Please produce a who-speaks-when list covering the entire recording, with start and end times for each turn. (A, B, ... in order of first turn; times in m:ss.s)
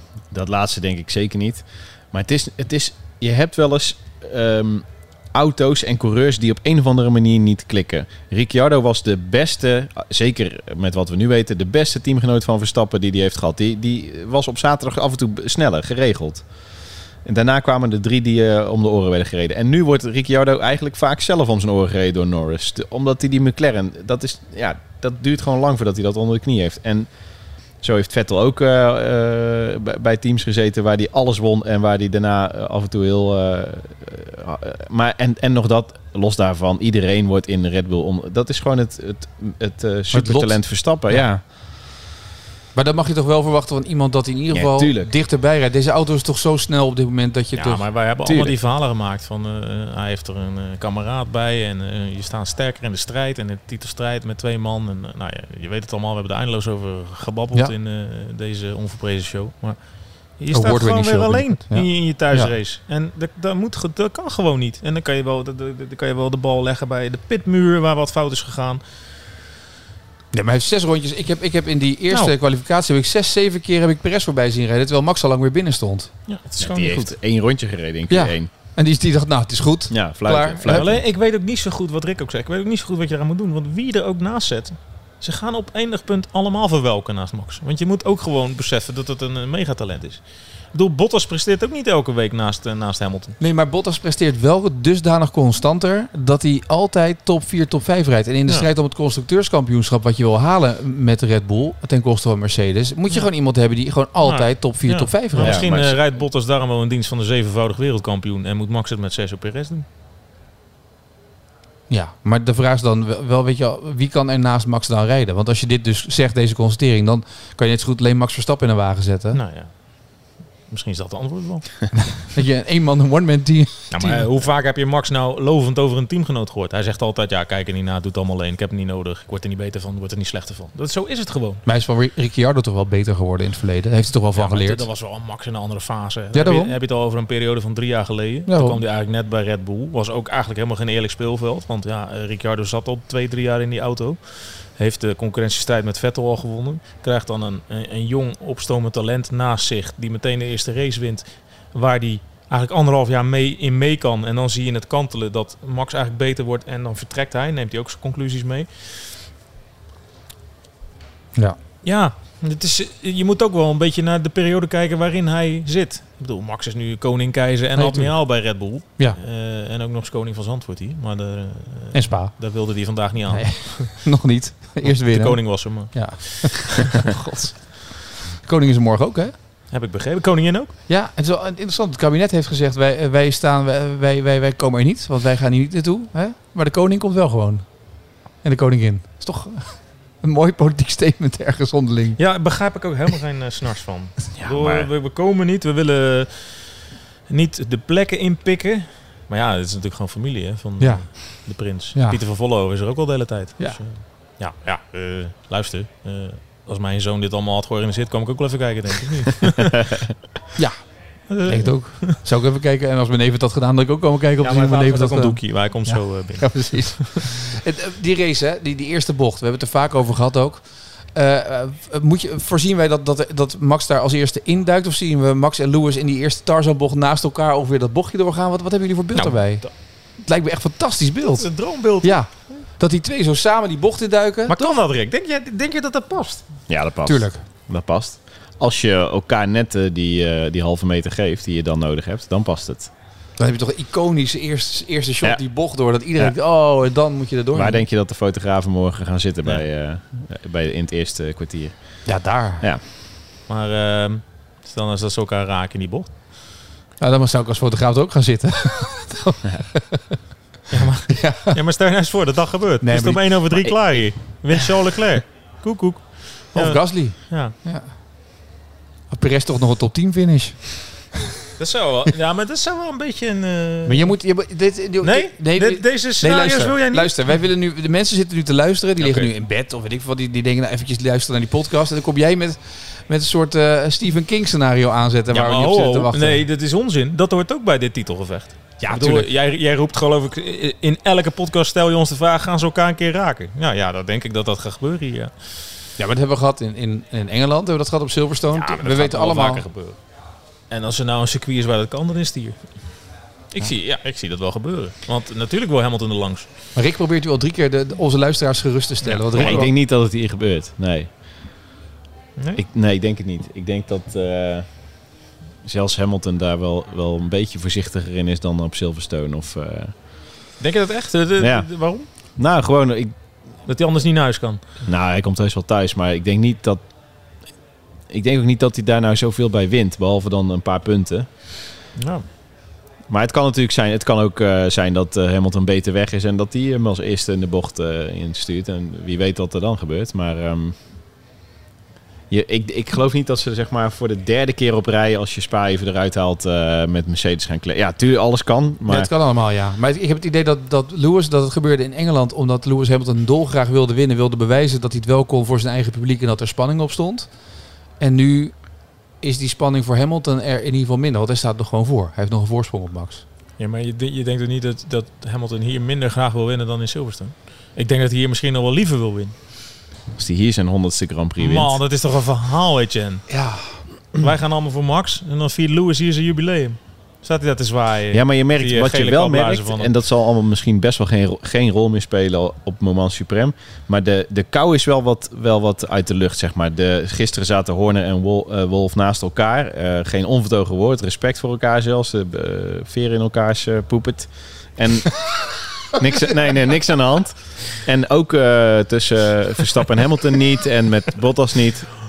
0:00.3-0:16.4 A
0:17.2-0:27.1 A
0:27.8-0:41.4 A
0:40.1-0:41.2 B
0:42.7-0:47.9 B
0:44.5-0:45.1 A
0:47.5-1:08.8 C
0:48.2-0:48.5 A
1:00.5-1:02.5 B
1:10.3-1:16.1 B
1:16.3-1:17.1 C
1:16.6-1:18.5 A
1:18.1-1:20.8 B
1:19.9-1:21.0 A
1:20.7-1:33.4 C
1:33.4-1:45.6 B
1:44.2-1:49.8 C
1:45.4-1:46.0 A
1:51.9-1:59.4 B
1:59.3-2:01.9 C
2:02.0-2:04.2 B
2:03.9-2:11.6 C
2:11.6-2:14.8 B
2:14.4-2:39.1 C
2:16.3-2:16.8 B
2:18.5-2:18.8 B
2:41.8-2:54.1 C
2:47.7-2:48.3 B
2:51.9-2:52.3 B
2:53.3-2:59.3 B
2:54.8-2:56.8 C
2:59.7-3:00.7 C
3:00.9-3:07.6 B
3:08.4-3:12.2 B
3:12.2-3:29.8 C
3:14.4-3:14.9 A
3:20.8-3:22.2 B
3:29.8-3:30.1 A
3:30.6-3:54.6 B
3:31.3-3:32.2 C
3:34.4-3:37.2 C
3:49.1-3:49.7 C
3:51.4-3:52.6 C
3:54.5-3:56.4 C
3:56.7-4:02.9 A
3:57.0-3:57.4 B
4:03.4-4:07.8 B
4:07.5-4:12.1 A
4:12.0-4:12.6 B
4:13.5-4:16.1 C
4:17.0-4:20.2 B
4:20.7-4:27.5 C
4:21.1-4:21.6 B
4:22.8-4:24.1 B
4:26.5-4:27.9 B
4:29.1-4:31.2 B
4:31.6-4:34.1 C
4:33.8-4:46.4 B
4:35.0-4:37.1 C
4:39.0-4:39.3 C
4:45.3-4:55.3 C
4:48.8-4:49.3 B
4:56.0-4:59.6 B
4:58.5-5:00.0 C
5:00.7-5:02.7 C
5:03.5-5:06.4 C
5:06.8-5:09.7 B
5:09.0-5:09.6 C
5:09.3-5:11.1 A
5:12.4-5:12.6 C
5:12.6-5:14.7 A
5:15.6-5:19.9 A
5:20.6-5:22.0 C
5:21.4-5:21.7 A
5:22.4-5:23.1 A
5:23.6-5:24.6 C
5:24.8-5:26.8 A
5:28.1-5:31.3 A
5:32.0-5:32.2 C
5:33.1-5:40.7 A
5:42.3-5:49.1 A
5:48.9-5:57.3 B
5:58.0-5:58.6 B
5:59.2-6:03.2 B
6:03.6-6:09.3 C
6:10.2-6:11.8 A
6:11.4-6:13.3 C
6:13.3-6:13.8 B
6:14.1-6:19.9 C
6:18.1-6:42.0 A